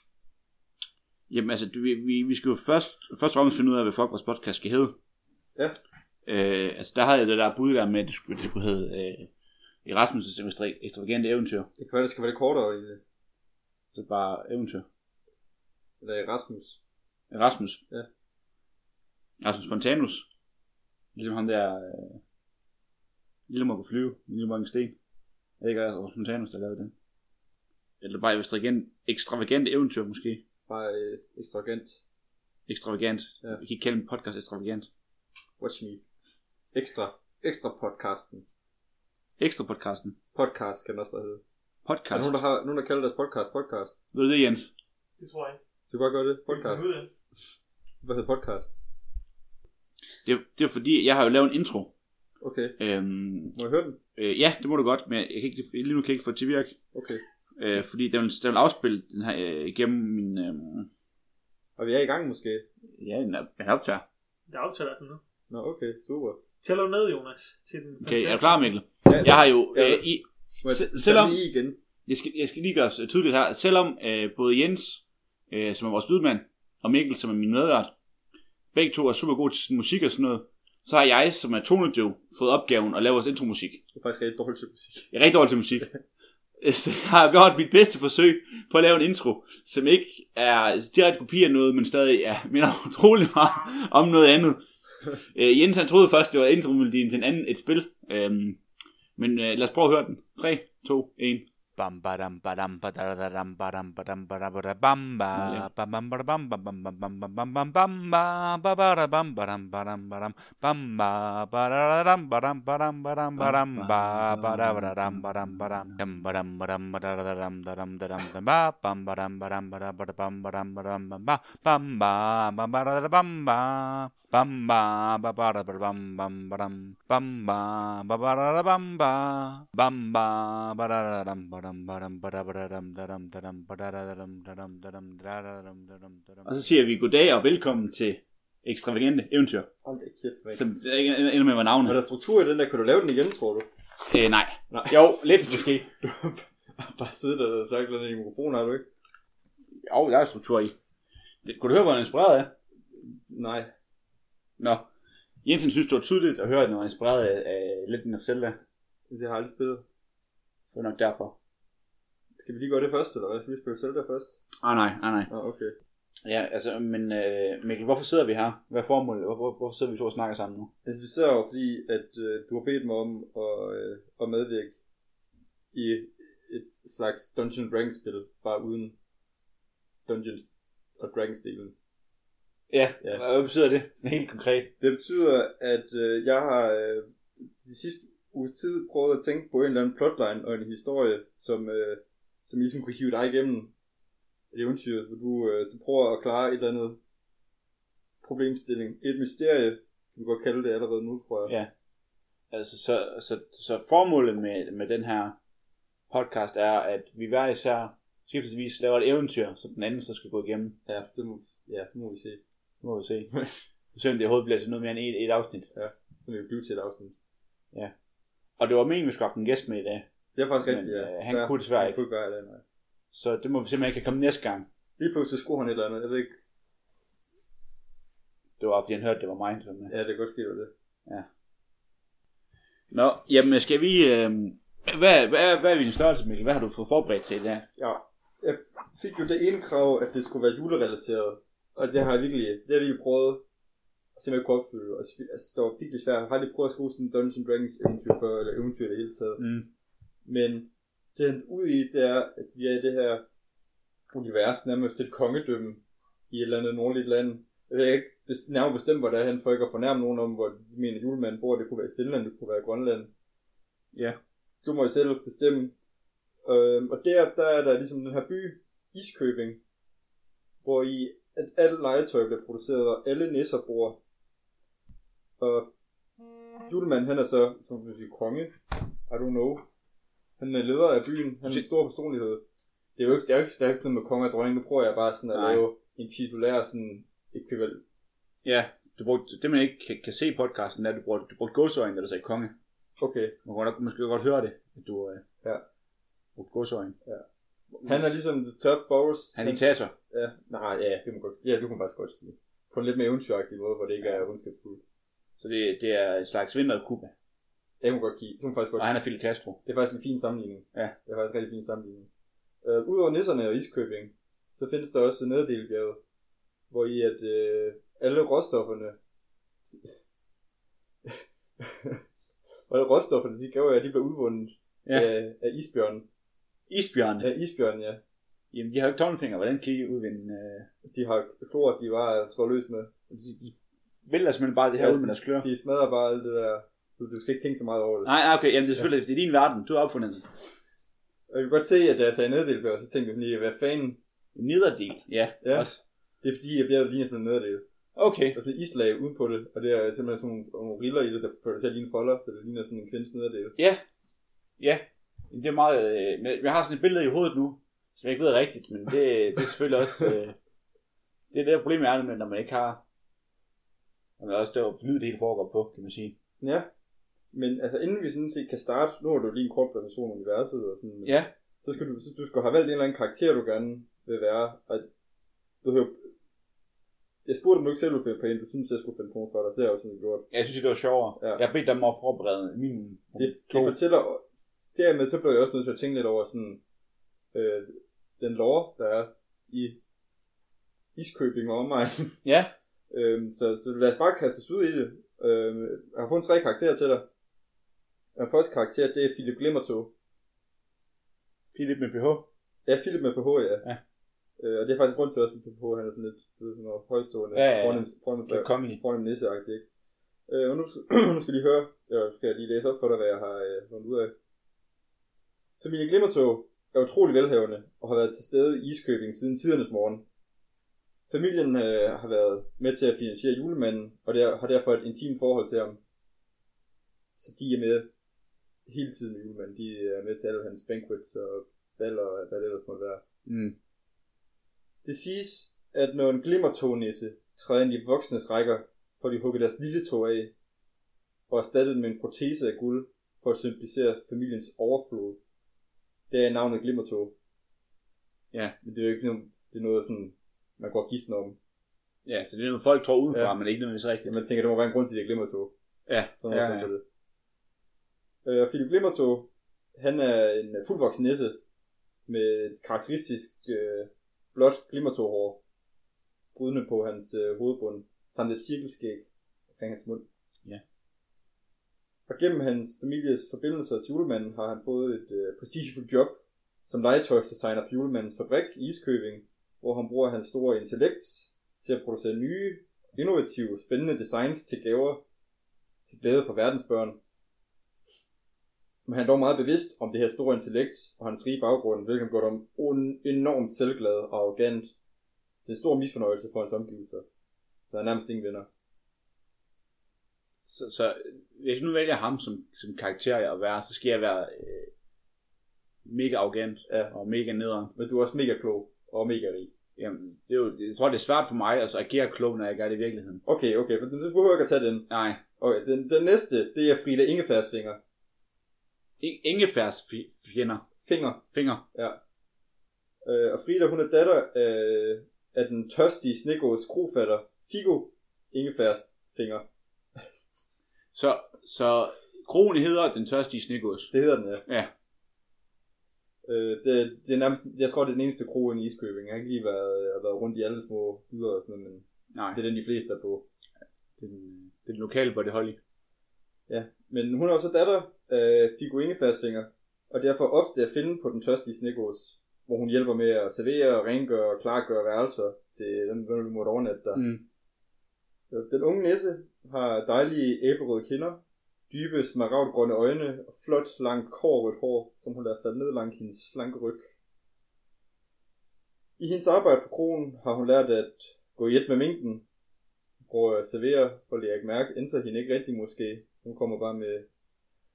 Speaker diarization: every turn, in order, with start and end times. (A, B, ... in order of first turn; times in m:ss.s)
0:01.3-0:05.0 A
0:06.2-0:09.3 A
0:09.8-0:11.7 A
0:11.8-0:13.0 B
0:13.9-0:14.8 A
0:16.0-0:16.8 B
0:17.3-0:17.8 A
0:19.4-0:20.3 A
0:21.1-0:22.2 A
0:23.5-0:25.0 A
0:25.6-0:26.9 A
0:28.0-0:30.4 A
0:30.7-0:32.0 B
0:32.7-0:34.9 A
0:35.6-0:36.0 B
0:36.7-0:38.4 B
0:39.4-0:40.2 A
0:40.3-0:41.4 B
0:41.8-0:42.4 A
0:42.1-0:43.9 B
0:44.1-0:44.7 A
0:45.2-0:45.6 C
0:45.9-0:46.9 B
0:46.5-0:47.1 C
0:48.0-0:48.8 B
0:50.2-0:51.9 A
0:52.4-0:52.8 B
0:52.8-0:53.6 A
0:53.5-0:54.0 B
0:54.2-0:56.8 A
0:56.9-0:57.2 B
0:57.6-1:00.9 A
1:01.8-1:02.6 B
1:03.0-1:04.0 A
1:04.5-1:05.2 C
1:05.5-1:06.4 B
1:06.6-1:08.7 C
1:08.0-1:11.4 A
1:09.0-1:10.0 B
1:10.6-1:11.8 B
1:12.0-1:17.9 A
1:18.7-1:23.8 A
1:23.9-1:25.1 B
1:25.1-1:25.9 A
1:26.6-1:34.6 A
1:35.3-1:38.6 A
1:39.2-1:41.4 A
1:41.8-2:16.5 D
1:45.3-1:45.7 A
1:53.4-1:56.0 A
2:16.4-2:19.7 A
2:19.8-2:20.6 B
2:20.5-2:22.0 A
2:21.8-2:23.7 B
2:24.0-2:25.9 A
2:24.7-2:28.8 B
2:29.8-2:30.7 A
2:31.4-2:32.5 A
2:33.3-2:33.7 B
2:34.6-2:34.9 A
2:35.4-2:38.6 A
2:39.1-2:39.8 B
2:40.7-2:41.3 A
2:42.4-2:44.4 B
2:44.6-2:45.3 A
2:45.3-2:45.7 B
2:46.2-2:50.7 A
2:50.8-2:54.8 B
2:55.7-2:58.9 B
3:00.0-3:01.7 B
3:02.7-3:04.7 A
3:04.8-3:13.7 B
3:14.5-3:17.0 B
3:18.2-3:21.5 B
3:21.4-3:21.7 A
3:22.5-3:25.4 A
3:26.1-3:30.8 A
3:30.8-3:32.4 B
3:32.8-3:33.3 A
3:33.9-3:35.7 A
3:35.7-3:37.1 B
3:38.6-3:40.1 A
3:40.3-3:42.6 B
3:40.6-3:42.0 A
3:43.1-3:44.7 A
3:45.0-3:46.4 B
3:48.6-3:49.9 A
3:49.9-3:50.7 B
3:52.9-3:57.6 A
3:57.8-4:03.4 B
4:04.1-4:09.4 B
4:09.4-4:09.7 A
4:10.2-4:13.2 B
4:14.1-4:23.1 B
4:24.6-4:25.7 B
4:26.4-4:29.6 B
4:30.6-4:34.0 B
4:35.4-4:35.7 B
4:36.7-4:38.5 B
4:39.1-4:39.6 B
4:40.4-4:42.4 B
4:43.0-4:47.8 B
4:45.3-4:45.6 A
4:48.4-4:52.5 A
4:53.0-4:53.3 B
4:53.4-4:55.2 A
4:56.4-4:57.0 A
4:57.7-4:58.1 A
4:57.8-5:04.8 B
4:59.3-4:59.9 A
5:05.4-5:07.1 A
5:07.8-5:09.0 B
5:08.8-5:09.6 A
5:09.6-5:12.1 B
5:12.6-5:16.0 B
5:16.7-5:19.0 B
5:19.6-5:20.0 B
5:21.0-5:22.0 B
5:22.7-5:26.0 B
5:24.8-5:25.1 A
5:26.7-5:27.3 A
5:27.2-5:28.0 B
5:28.5-5:30.7 A
5:30.8-5:32.9 B
5:33.1-5:33.5 A
5:34.0-5:35.5 A
5:34.8-5:38.1 B
5:38.0-5:40.3 A
5:41.3-5:44.0 B
5:44.3-5:45.8 A
5:45.4-5:45.7 B
5:46.2-5:47.6 B
5:47.9-5:48.4 A
5:48.3-5:53.6 B
5:53.6-5:53.8 A
5:54.6-6:00.4 A
6:01.3-6:02.8 A
6:04.2-6:06.2 A
6:06.4-6:06.7 B
6:07.3-6:14.9 B
6:11.0-6:11.3 A
6:15.6-6:16.1 B
6:17.2-6:20.2 B
6:20.3-6:23.8 A
6:23.2-6:24.2 B
6:24.7-6:26.6 B
6:27.3-6:29.8 B
6:30.9-6:32.2 B
6:32.2-6:32.5 A
6:32.9-6:37.0 B
6:38.2-6:39.9 B
6:41.5-6:42.3 A
6:42.6-6:43.6 B
6:44.4-6:49.6 B
6:47.3-6:48.8 A
6:50.3-6:54.1 B
6:55.6-7:00.0 B
7:01.1-7:05.8 B
7:07.2-7:07.9 B
7:08.6-7:13.0 B
7:13.2-7:13.5 A
7:14.8-7:20.3 B
7:21.3-7:25.2 B
7:26.1-7:27.1 B
7:28.6-7:31.4 B
7:32.0-7:34.2 A
7:34.0-7:35.5 B
7:35.9-7:36.7 A
7:36.2-7:36.8 B
7:38.2-7:41.4 B
7:42.1-7:45.4 B
7:46.3-7:50.0 B
7:52.1-8:05.0 B
8:05.9-8:07.0 B
8:08.8-8:14.7 B
8:15.4-8:17.0 B
8:17.7-8:18.5 B
8:20.5-8:24.7 A
8:25.8-8:27.7 A
8:26.7-8:26.9 B
8:27.7-8:29.5 B
8:29.8-8:33.2 A
8:33.2-8:34.9 B
8:34.9-8:35.2 A
8:35.4-8:37.8 B
8:39.0-8:40.7 A
8:40.8-8:42.0 B
8:41.3-8:41.6 A
8:43.0-8:49.4 B
8:50.9-8:53.9 A
8:53.9-8:54.4 B
8:54.4-8:54.7 A
8:56.2-9:03.2 B
9:02.1-9:02.4 A
9:04.0-9:05.6 A
9:06.5-9:17.0 B
9:16.9-9:17.2 A
9:18.3-9:26.9 B
9:29.0-9:32.2 B
9:33.0-9:37.1 B